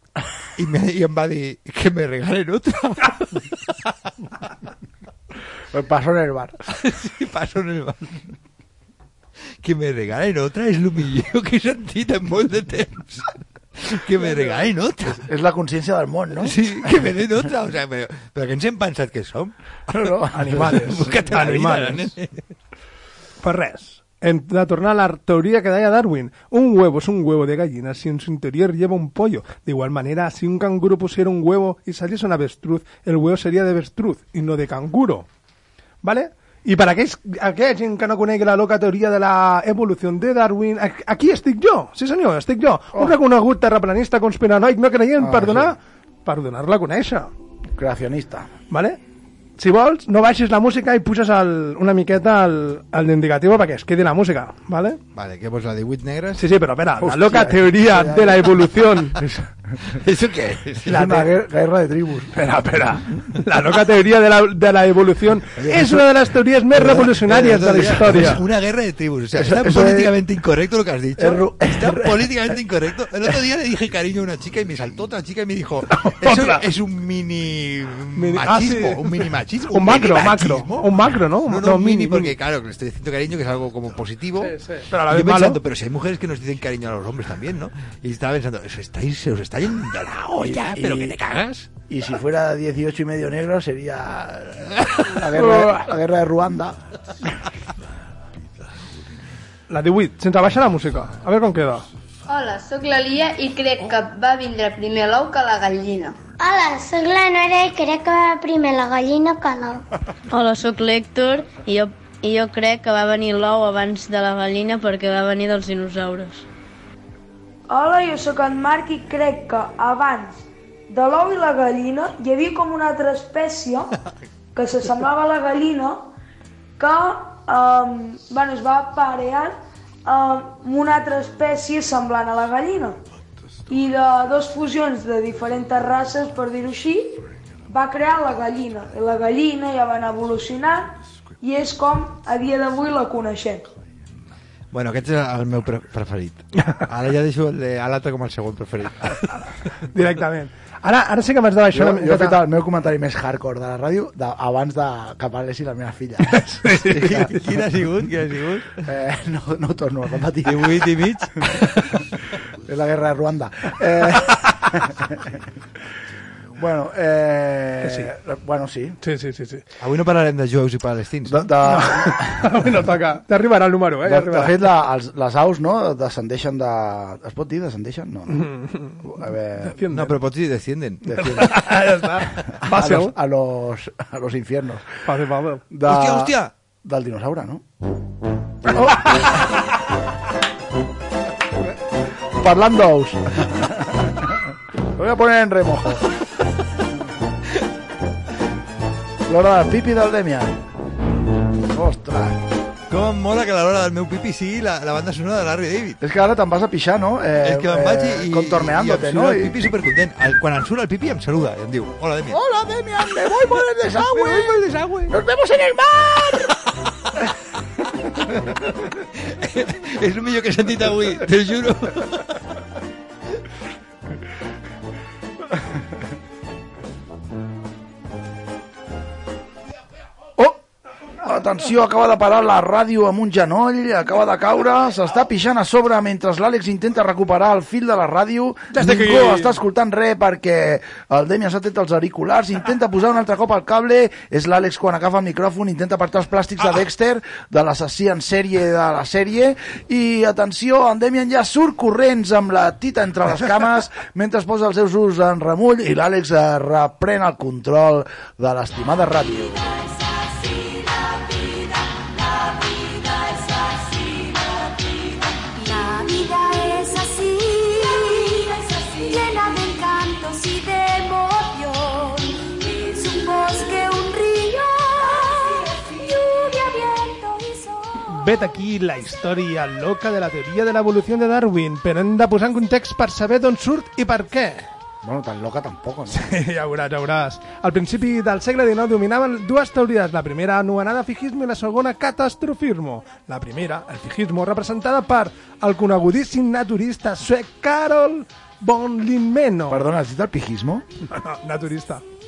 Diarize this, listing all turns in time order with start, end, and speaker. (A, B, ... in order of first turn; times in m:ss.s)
0:00.6-0:03.5 A
0:05.7-0:06.5 B
0:06.8-0:08.2 A
0:09.6-0:15.2 A
0:15.1-0:17.1 B
0:16.4-0:19.5 A
0:19.9-0:20.9 B
0:20.3-0:22.1 C
0:20.6-0:22.3 A
0:23.4-0:35.2 C
0:36.0-0:47.3 C
0:45.2-0:45.7 B
0:47.8-0:48.5 B
0:48.7-0:49.0 C
0:49.6-0:55.0 C
0:55.1-0:56.4 A
0:56.4-0:59.2 C
0:57.0-0:59.3 B
1:00.0-1:01.2 A
1:00.8-1:02.4 B
1:00.9-1:01.2 C
1:02.4-1:08.4 C
1:06.7-1:20.9 A
1:09.4-1:10.1 B
1:11.2-1:12.3 B
1:16.0-1:16.6 C
1:18.2-1:19.0 C
1:19.7-1:22.3 C
1:21.4-1:24.5 A
1:24.4-1:25.6 C
1:25.1-1:31.7 A
1:30.3-1:31.2 B
1:31.9-1:36.8 B
1:35.4-1:35.9 C
1:39.7-1:41.8 C
1:46.4-1:49.8 D
1:50.3-1:56.4 E
1:57.7-2:03.9 F
2:04.5-2:06.1 F
2:06.8-2:13.0 F
2:13.7-2:23.7 F
2:24.7-2:29.3 A
2:29.9-2:32.4 C
2:31.7-2:37.3 B
2:36.3-2:37.3 C
2:36.9-2:38.7 A
2:38.8-2:40.7 B
2:40.4-2:41.3 A
2:42.6-2:45.4 B
2:46.6-2:49.0 B
2:47.8-2:48.1 C
2:49.0-2:49.6 C
2:49.8-2:51.5 A
2:51.3-2:52.5 B
2:51.7-2:54.5 C
2:54.0-2:58.4 B
2:58.3-2:59.0 C
2:59.0-2:59.8 B
2:59.6-3:00.1 C
2:59.9-3:01.5 A
3:01.1-3:01.4 B
3:01.2-3:03.1 C
3:02.7-3:04.9 B
3:05.0-3:05.6 C
3:05.7-3:07.6 B
3:05.9-3:06.5 A
3:12.4-3:14.3 B
3:15.0-3:16.0 B
3:19.3-3:20.6 B
3:21.7-3:22.4 B
3:22.9-3:26.0 A
3:26.0-3:29.6 B
3:27.4-3:32.4 A
3:32.3-3:36.5 B
3:34.2-3:35.1 A
3:39.3-3:42.2 A
3:51.2-4:19.8 B
3:58.7-3:59.6 C
4:20.4-4:21.3 E
4:22.5-4:37.9 E
4:38.1-4:44.7 C
4:45.0-4:46.2 B
4:46.1-4:59.8 C
4:59.7-5:00.8 B
5:01.1-5:02.0 C